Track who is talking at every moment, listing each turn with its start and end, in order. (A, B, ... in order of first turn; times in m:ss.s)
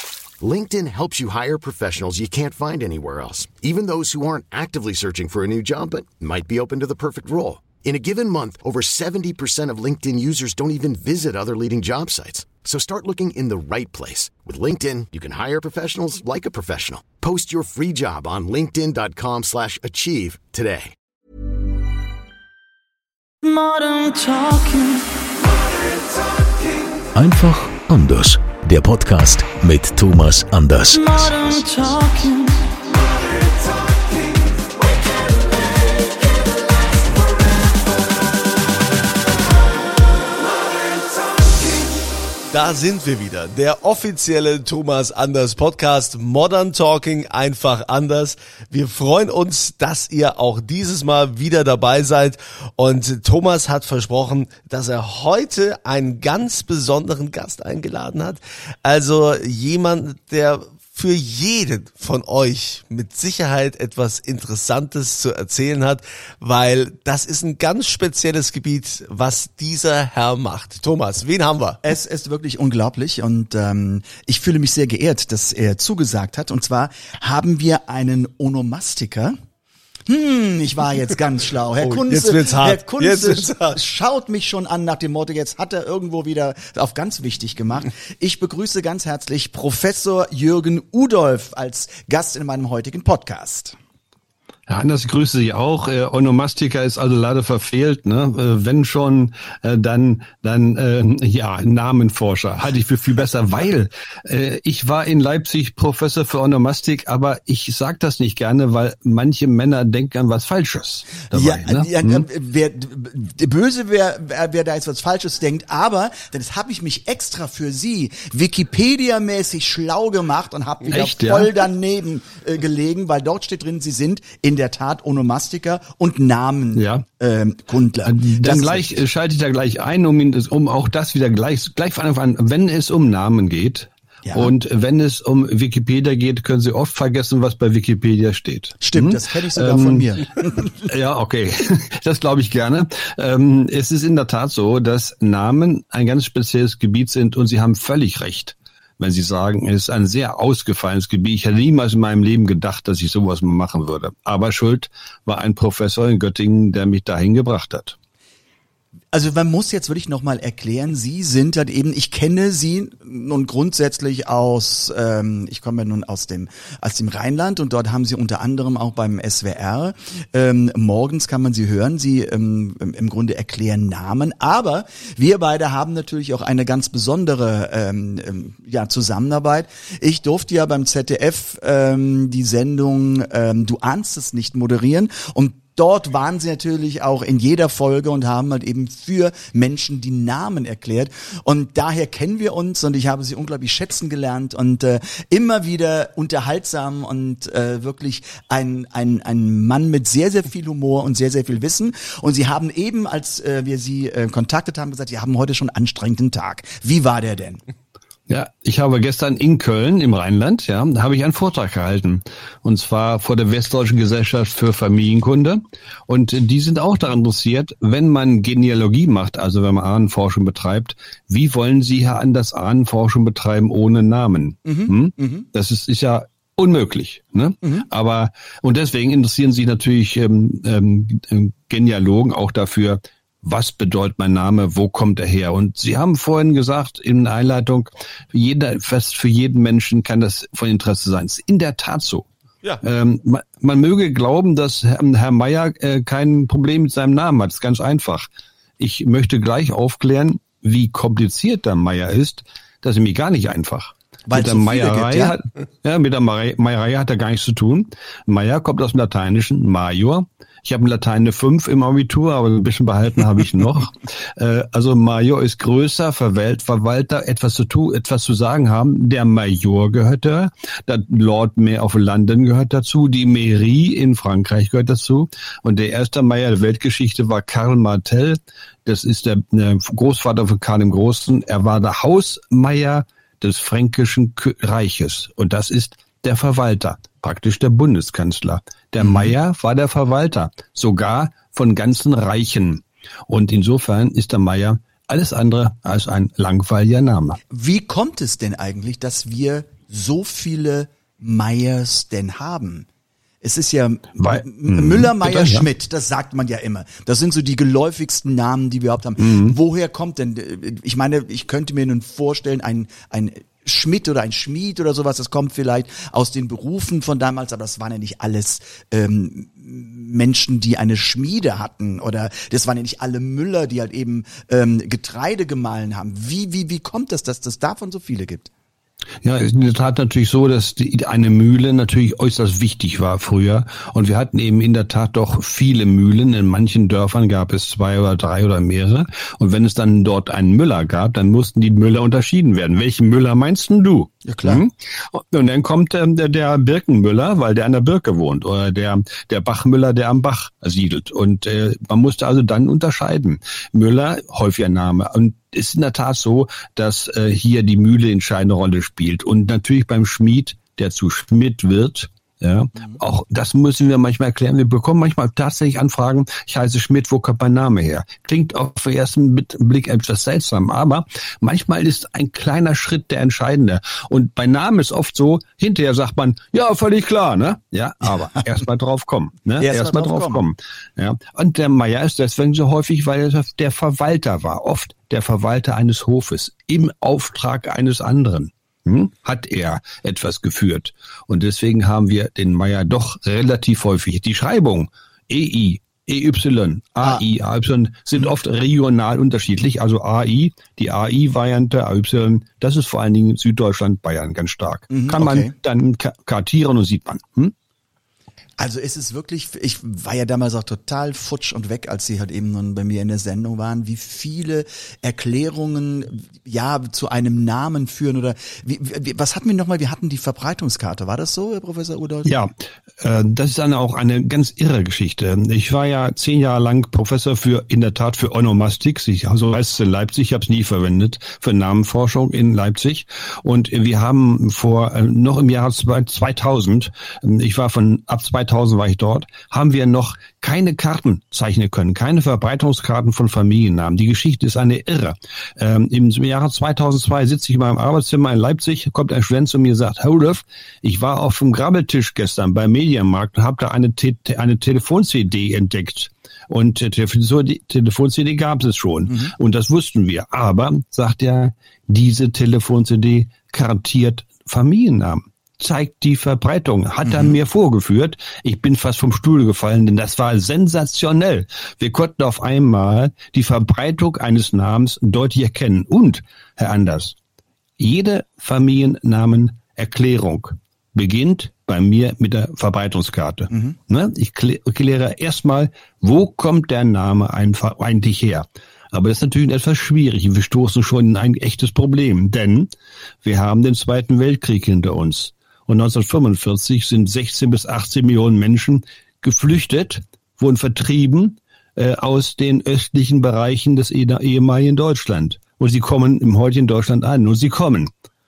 0:00.4-0:20.9 A
0:23.4-0:25.1 B
0:27.1-0:31.6 C
0:30.9-0:32.7 B
0:42.5-1:11.8 D
1:11.8-1:19.4 E
1:20.1-1:33.8 E
1:21.8-1:23.8 D
1:34.7-1:52.2 F
1:51.3-2:09.0 E
2:00.9-2:01.6 F
2:06.7-2:07.0 F
2:08.0-2:20.1 F
2:14.2-2:14.5 E
2:18.8-2:20.7 E
2:20.8-2:38.0 F
2:39.1-3:27.6 E
3:28.3-4:02.3 F
3:44.6-3:45.5 E
4:02.8-4:08.3 F
4:08.8-4:57.4 F
4:14.3-4:15.4 E
4:49.0-4:49.3 E
4:57.5-5:02.9 E
5:03.4-5:28.5 E
5:04.2-5:05.7 F
5:09.2-5:09.6 F
5:29.2-6:47.5 F
5:44.2-5:44.6 E
6:19.6-6:20.4 E
6:44.9-6:45.5 E
6:48.6-7:02.3 E
7:02.2-7:57.2 F
7:47.0-7:47.4 E
7:57.8-8:12.7 F
8:13.2-8:27.9 F